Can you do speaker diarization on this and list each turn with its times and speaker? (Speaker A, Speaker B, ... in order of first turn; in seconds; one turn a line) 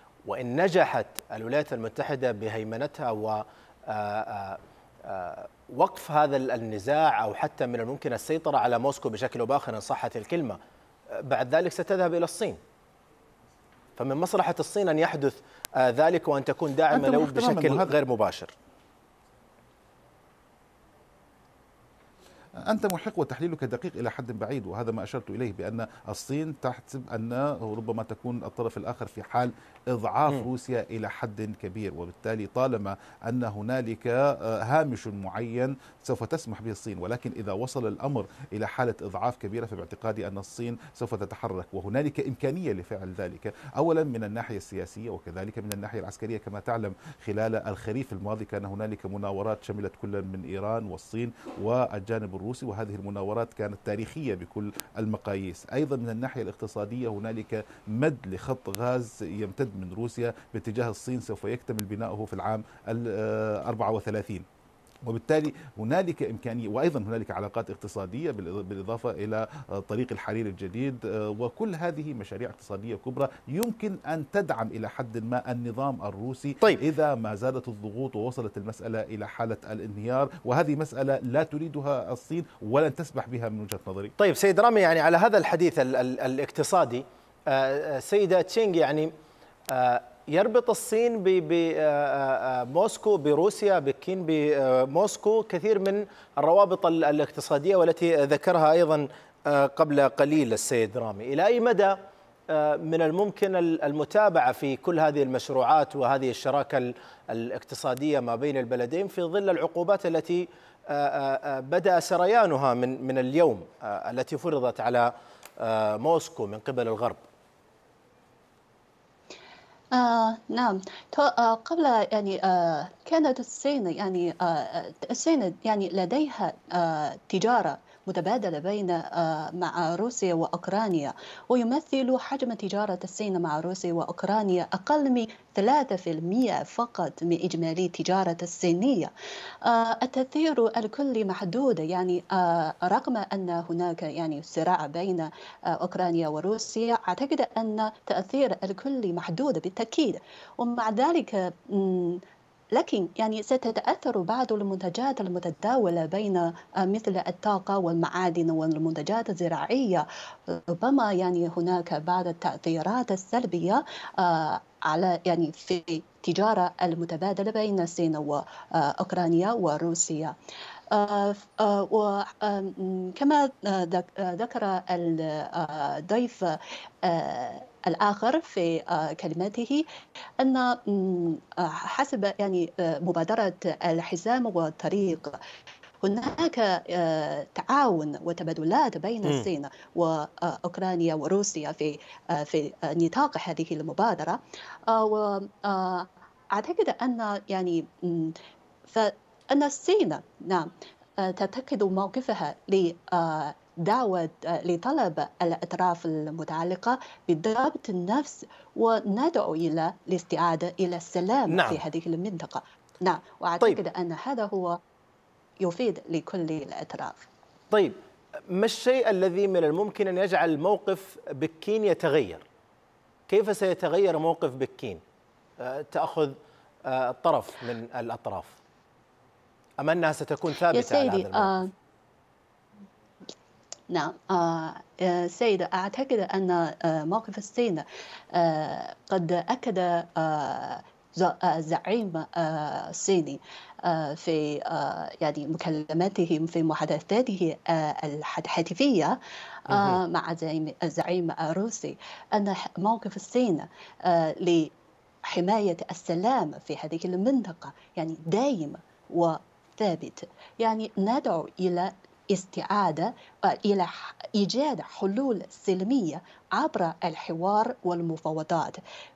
Speaker A: 0.3-10.6
Speaker A: 11.1-12.6
Speaker A: 14.0-18.5
Speaker B: 16.9-17.9
Speaker B: 22.6-64.5
Speaker B: 65.0-84.1
Speaker A: 84.2-89.1
Speaker A: 89.7-102.0
Speaker A: 102.5-117.2
Speaker C: 119.9-139.1
Speaker C: 139.6-152.2
Speaker C: 152.7-170.3
Speaker C: 170.9-179.8
Speaker C: 180.4-185.4
Speaker C: 186.0-198.4
Speaker C: 198.9-214.8
Speaker A: 211.5-211.8
Speaker C: 215.6-217.2
Speaker A: 218.5-222.4
Speaker A: 223.3-225.0
Speaker A: 225.6-228.6
Speaker A: 229.8-231.6
Speaker C: 230.7-231.7
Speaker C: 233.9-249.2
Speaker C: 249.7-254.7
Speaker A: 249.7-250.0
Speaker C: 255.3-268.8